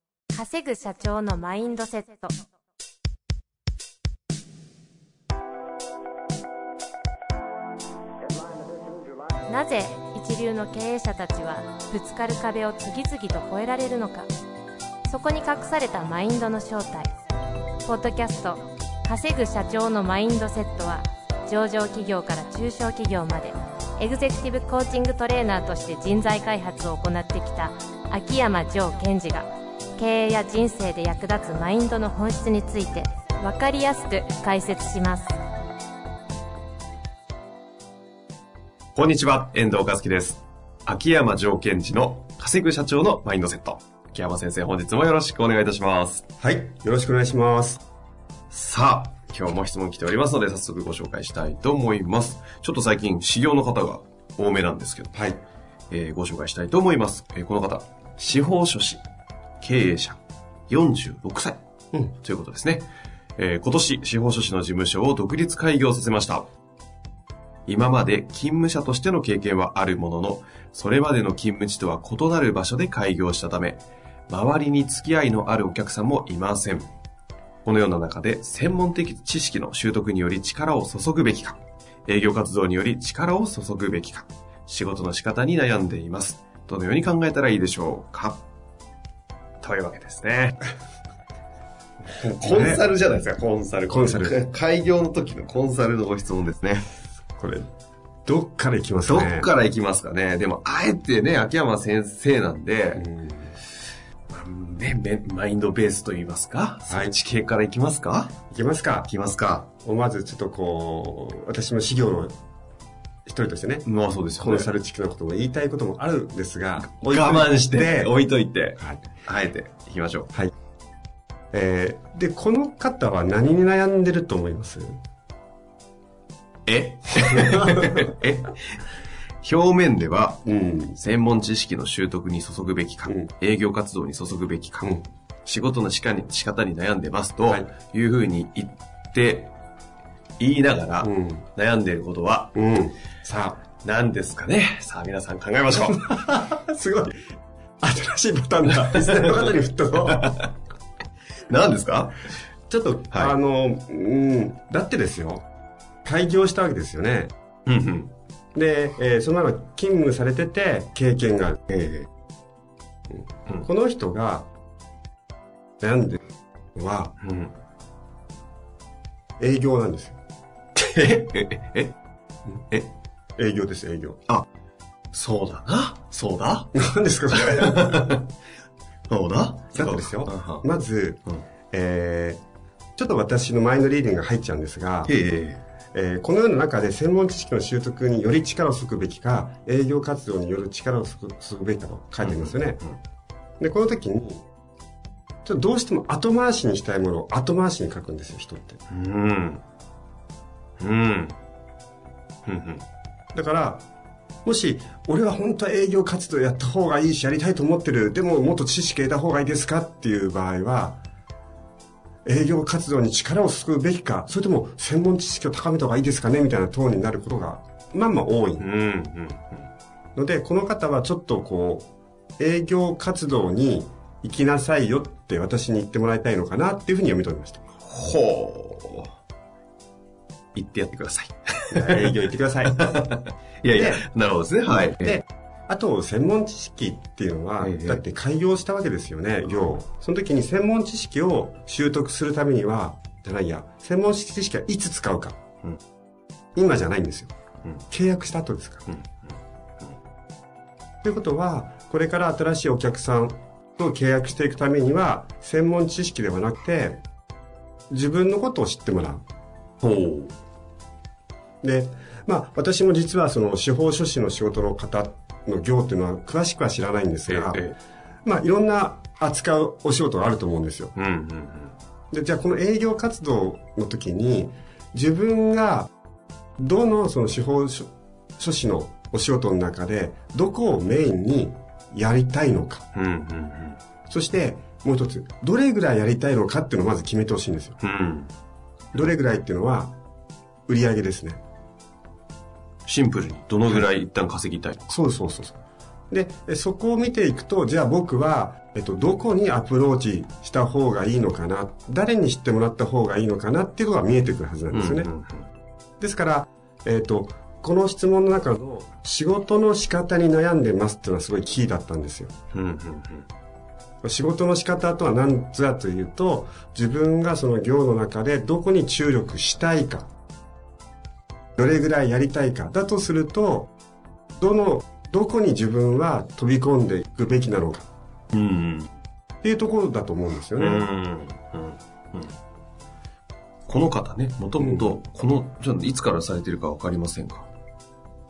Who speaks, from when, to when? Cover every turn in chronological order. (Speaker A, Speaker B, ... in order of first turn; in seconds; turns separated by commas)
Speaker A: 0.3-2.3, Speaker A: 9.5-14.3, Speaker A: 15.1-17.1, Speaker A: 17.8-35.3, Speaker B: 39.0-46.2, Speaker C: 46.4-47.8, Speaker B: 48.5-55.2, Speaker C: 55.1-55.4, Speaker B: 55.9-59.0, Speaker B: 59.6-61.6, Speaker B: 62.2-66.5, Speaker B: 67.7-76.9, Speaker B: 77.6-88.4, Speaker B: 89.6-90.7, Speaker B: 92.0-96.9, Speaker C: 92.4-92.8, Speaker C: 93.9-94.4, Speaker C: 97.4-97.7, Speaker C: 98.2-99.5, Speaker B: 99.0-103.0, Speaker C: 103.0-103.5, Speaker B: 104.3-108.3, Speaker C: 108.5-109.1, Speaker B: 109.1-109.7, Speaker C: 109.8-112.3, Speaker C: 113.2-113.8, Speaker B: 113.8-114.7, Speaker C: 114.4-118.1, Speaker B: 116.9-120.3, Speaker C: 118.8-119.0, Speaker C: 121.5-125.0, Speaker B: 126.7-128.8, Speaker B: 129.4-130.4, Speaker C: 130.4-131.0, Speaker B: 131.0-139.5, Speaker B: 140.4-142.5, Speaker C: 141.0-141.4, Speaker C: 142.5-143.6, Speaker B: 143.8-146.1, Speaker C: 145.9-150.3, Speaker B: 150.1-150.5, Speaker B: 151.5-152.2, Speaker C: 152.7-155.4, Speaker C: 156.0-157.3, Speaker B: 157.7-158.1, Speaker C: 158.5-161.6, Speaker B: 161.7-162.1, Speaker C: 163.1-164.5, Speaker C: 165.8-166.2, Speaker C: 166.8-167.1, Speaker B: 167.2-167.5, Speaker C: 169.4-170.2, Speaker B: 170.8-171.9, Speaker C: 173.4-174.2, Speaker B: 175.1-176.7, Speaker C: 176.7-178.2, Speaker B: 177.3-178.3, Speaker B: 179.1-180.6, Speaker C: 179.8-182.4, Speaker C: 183.0-185.1, Speaker B: 185.1-185.6, Speaker C: 185.9-192.8, Speaker B: 192.2-192.9, Speaker C: 193.6-194.4, Speaker C: 195.4-198.8, Speaker B: 198.9-199.6, Speaker B: 200.8-201.3, Speaker B: 202.4-202.8, Speaker C: 203.3-203.8, Speaker C: 204.4-211.0, Speaker C: 212.2-218.7, Speaker B: 218.6-219.6, Speaker C: 220.1-227.6, Speaker B: 227.8-229.1, Speaker B: 230.5-232.2, Speaker C: 231.7-232.9, Speaker B: 232.7-235.2, Speaker C: 233.7-234.0, Speaker C: 234.8-245.4, Speaker B: 237.6-238.0, Speaker C: 246.5-247.3, Speaker C: 247.9-248.9, Speaker C: 251.0-257.0, Speaker C: 257.9-259.2, Speaker C: 259.8-260.3, Speaker C: 261.6-267.7, Speaker B: 267.3-267.8, Speaker C: 268.2-270.9, Speaker B: 271.0-271.7, Speaker C: 272.1-275.9, Speaker C: 276.6-282.9, Speaker B: 282.9-283.8, Speaker C: 284.1-287.8, Speaker B: 287.8-288.3, Speaker C: 288.9-290.0, Speaker C: 290.7-291.4, Speaker B: 292.9-294.8, Speaker C: 294.9-295.6, Speaker C: 296.1-305.1, Speaker B: 304.7-305.5, Speaker C: 306.0-312.3, Speaker B: 312.5-313.2, Speaker C: 314.0-320.1, Speaker C: 321.6-323.7, Speaker C: 324.4-327.9, Speaker B: 328.3-328.9, Speaker C: 329.4-330.9, Speaker B: 330.6-332.3, Speaker B: 333.7-337.5, Speaker C: 334.6-334.9